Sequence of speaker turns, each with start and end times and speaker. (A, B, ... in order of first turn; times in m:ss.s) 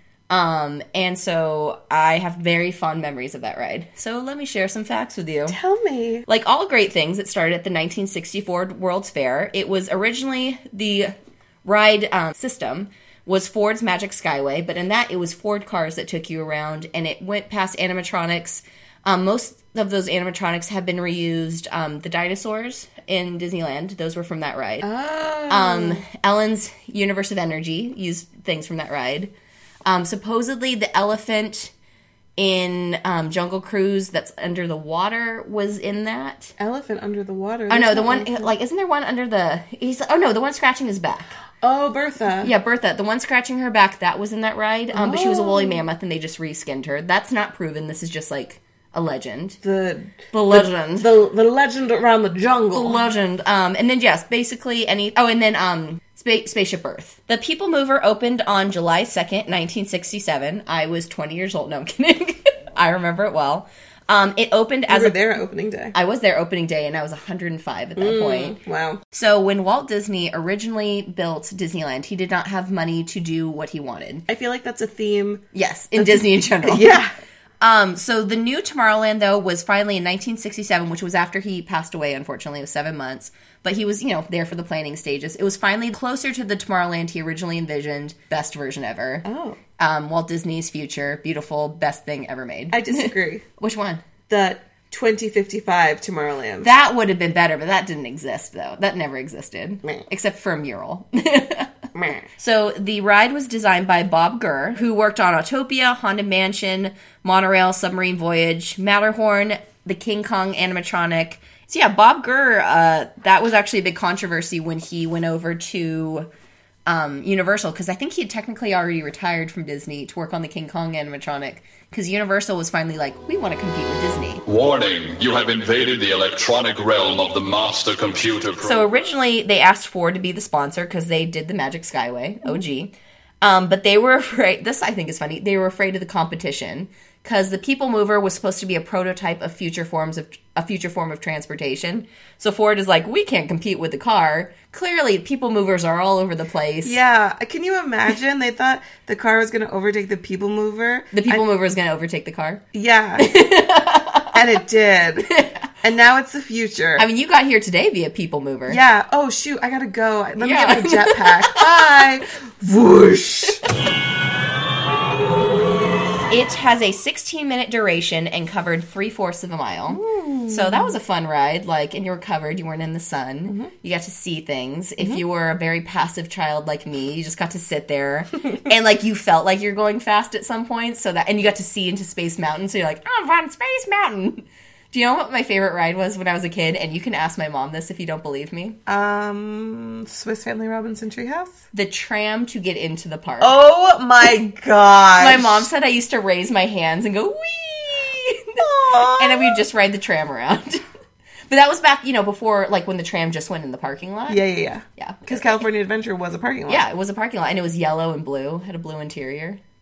0:00.3-0:05.6 A
0:05.5-0:06.3 B
0:06.3-0:11.1 A
0:11.6-0:24.9 A
0:24.8-0:26.0 B
0:25.5-0:29.3 A
0:29.8-0:31.7 A
0:32.4-0:36.5 A
0:36.6-0:38.5 B
0:37.7-0:41.3 A
0:41.6-0:42.5 B
0:42.4-0:49.6 A
0:44.9-0:45.8 B
0:49.6-0:53.0 B
0:50.3-0:51.1 A
0:52.7-1:05.2 A
1:04.9-1:05.9 B
1:05.9-1:08.6 A
1:08.0-1:09.0 B
1:09.1-1:14.2 A
1:14.3-1:17.1 B
1:15.5-1:17.0 A
1:17.6-1:29.2 A
1:29.2-1:29.6 B
1:29.8-1:34.0 A
1:32.7-1:33.4 B
1:34.3-1:36.7 B
1:36.6-1:41.7 A
1:41.9-1:42.2 B
1:42.4-1:56.3 A
1:56.8-2:04.4 A
2:04.4-2:08.8 C
2:08.6-2:27.0 A
2:26.8-2:31.4 B
2:31.1-2:32.6 A
2:32.7-2:33.3 B
2:33.2-2:34.3 A
2:34.3-2:35.3 B
2:35.3-2:35.7 A
2:35.8-2:37.0 B
2:37.0-2:38.8 A
2:38.7-2:43.6 B
2:40.4-2:42.0 A
2:46.3-3:08.8 A
2:49.9-2:50.9 B
3:08.8-3:11.6 B
3:11.7-3:13.5 A
3:13.4-3:15.7 B
3:15.2-3:18.6 A
3:18.6-3:19.6 B
3:19.2-3:20.8 A
3:21.5-3:24.4 A
3:24.3-3:26.8 B
3:25.0-3:25.6 A
3:26.7-3:29.6 A